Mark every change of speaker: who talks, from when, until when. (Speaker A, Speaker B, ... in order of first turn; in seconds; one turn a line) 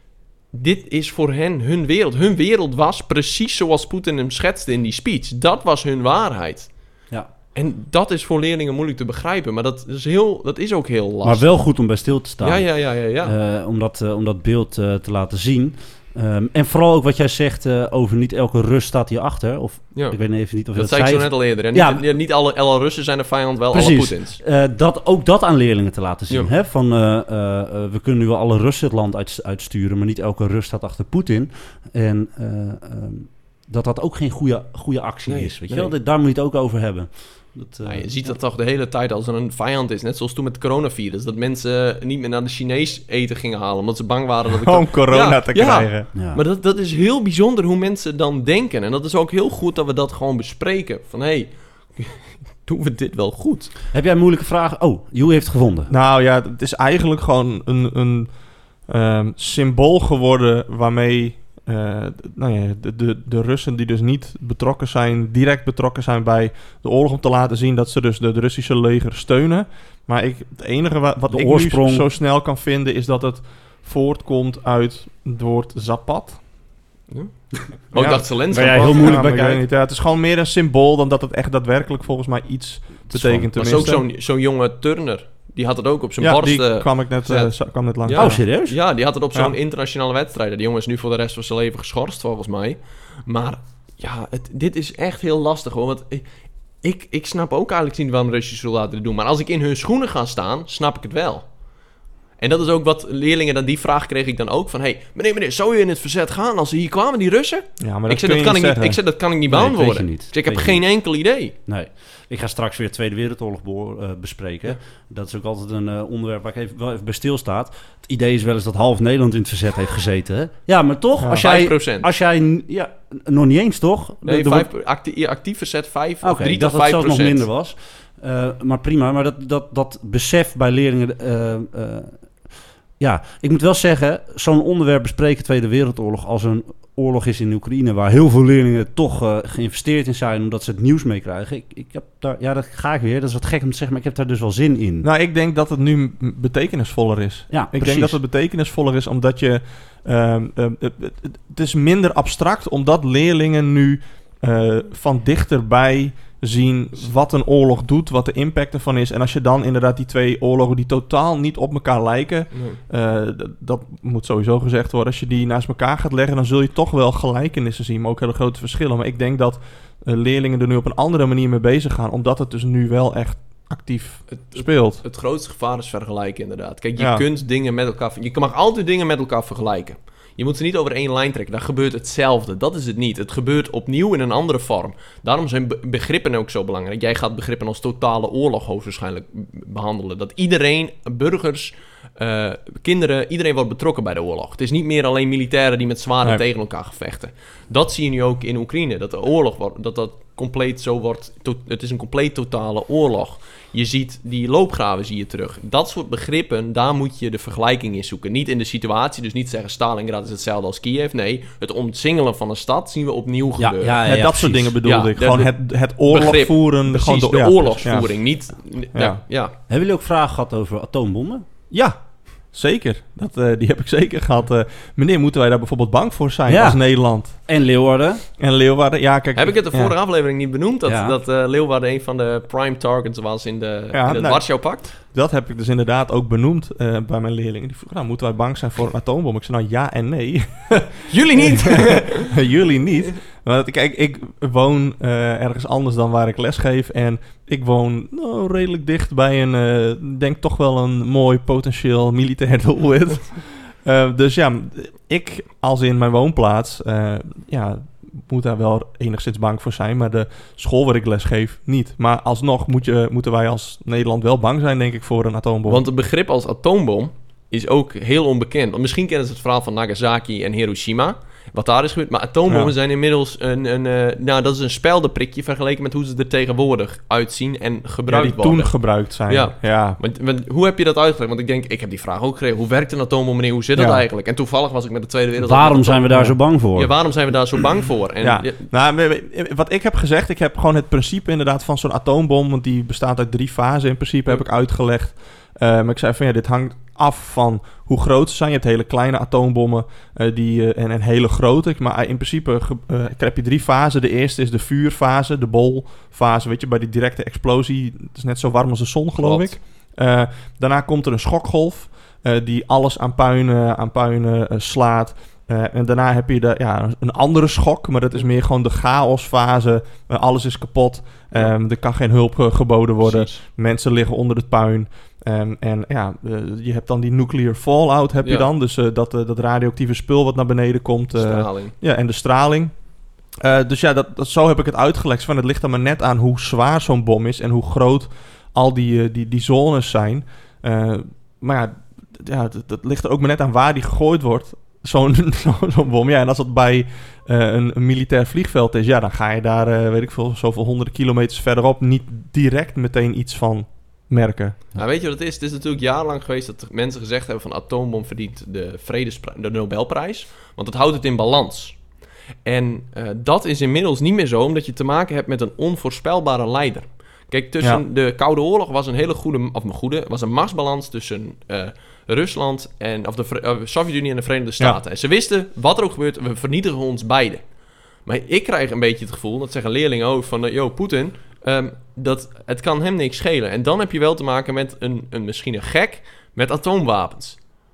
Speaker A: 0.5-6.9
Speaker A: 7.5-11.5
Speaker B: 11.2-22.1
Speaker A: 12.4-13.3
Speaker A: 19.9-24.4
Speaker B: 23.7-38.4
Speaker A: 35.3-35.9
Speaker A: 37.9-53.7
Speaker C: 44.5-46.0
Speaker B: 46.1-46.4
Speaker B: 53.9-55.9
Speaker C: 55.9-76.7
Speaker B: 71.3-72.1
Speaker A: 77.1-79.1
Speaker C: 77.9-84.1
Speaker B: 78.5-79.7
Speaker B: 83.1-83.9
Speaker A: 83.6-101.6
Speaker C: 86.2-88.4
Speaker B: 88.2-88.8
Speaker A: 102.4-111.5
Speaker C: 107.8-109.0
Speaker B: 109.5-110.9
Speaker B: 111.7-124.7
Speaker C: 121.2-121.5
Speaker A: 121.4-122.1
Speaker A: 124.2-127.5
Speaker B: 126.2-132.2
Speaker B: 133.0-145.1
Speaker C: 145.0-175.0
Speaker B: 147.5-148.2
Speaker A: 162.5-162.8
Speaker A: 174.3-214.0
Speaker C: 177.0-177.2
Speaker B: 213.6-214.8
Speaker C: 214.1-218.1
Speaker A: 214.8-219.5
Speaker C: 218.9-219.2
Speaker B: 219.7-221.4
Speaker C: 221.7-227.5
Speaker B: 226.5-228.2
Speaker C: 228.4-229.9
Speaker A: 229.4-234.9
Speaker B: 230.8-231.2
Speaker C: 233.9-265.9
Speaker A: 241.1-242.3
Speaker A: 265.7-286.1
Speaker C: 278.1-280.0
Speaker C: 283.8-284.0
Speaker B: 285.4-286.9
Speaker C: 286.1-286.4
Speaker A: 286.7-288.6
Speaker C: 288.2-354.6
Speaker A: 309.2-309.6
Speaker A: 323.0-323.4
Speaker A: 328.2-328.5
Speaker A: 331.2-331.7
Speaker A: 354.8-361.9
Speaker A: 362.4-387.5